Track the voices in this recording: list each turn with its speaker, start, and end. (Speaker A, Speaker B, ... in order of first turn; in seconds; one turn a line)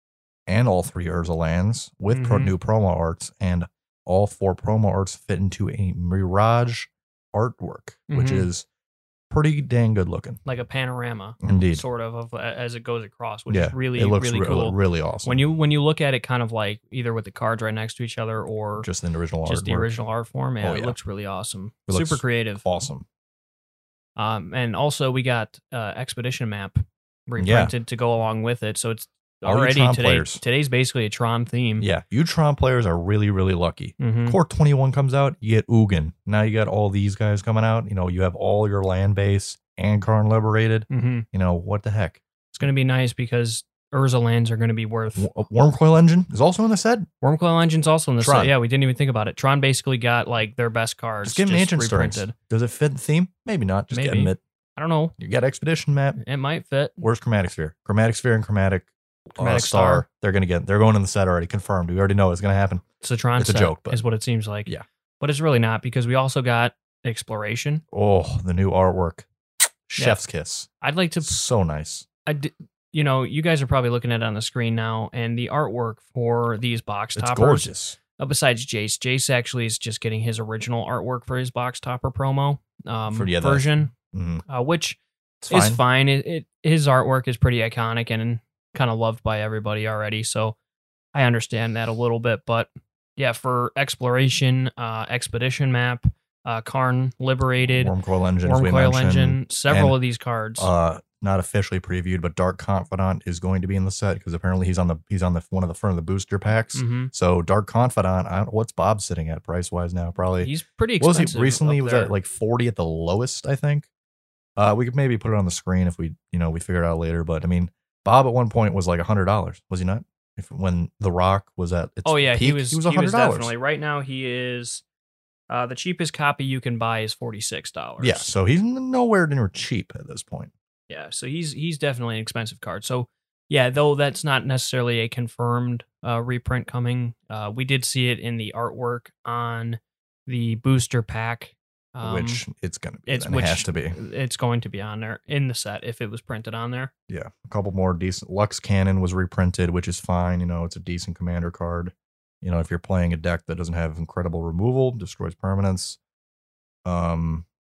Speaker A: 0.5-8.7
Speaker B: 2.1-2.5
Speaker B: 8.1-8.5
Speaker A: 9.3-10.4
Speaker B: 10.4-18.9
Speaker A: 11.4-11.8
Speaker A: 13.5-15.4
Speaker A: 18.8-19.9
Speaker B: 19.4-22.6
Speaker A: 20.6-21.0
Speaker A: 21.9-23.1
Speaker B: 24.1-31.9
Speaker A: 27.4-27.7
Speaker A: 29.4-30.4
Speaker A: 31.8-42.2
Speaker B: 34.0-34.4
Speaker B: 40.9-41.2
Speaker B: 42.5-45.3
Speaker A: 45.2-47.1
Speaker B: 47.2-52.3
Speaker A: 48.2-48.5
Speaker A: 51.2-54.4
Speaker B: 53.9-55.1
Speaker A: 55.2-56.2
Speaker B: 56.2-57.0
Speaker A: 57.0-62.8
Speaker B: 59.3-60.0
Speaker B: 63.0-67.8
Speaker A: 63.4-64.0
Speaker A: 67.9-69.3
Speaker A: 69.9-70.7
Speaker B: 70.8-71.4
Speaker A: 71.2-72.0
Speaker B: 72.2-83.9
Speaker A: 77.2-78.0
Speaker A: 83.1-84.4
Speaker B: 84.5-85.0
Speaker A: 85.4-85.8
Speaker B: 85.5-90.5
Speaker B: 91.1-100.7
Speaker A: 97.6-100.0
Speaker A: 100.6-113.9
Speaker B: 106.7-107.1
Speaker B: 110.4-112.1
Speaker A: 114.6-123.5
Speaker B: 122.0-124.8
Speaker B: 125.5-128.3
Speaker A: 128.0-130.5
Speaker B: 130.9-142.4
Speaker A: 142.0-144.0
Speaker B: 143.1-146.9
Speaker A: 147.1-156.0
Speaker A: 156.8-157.5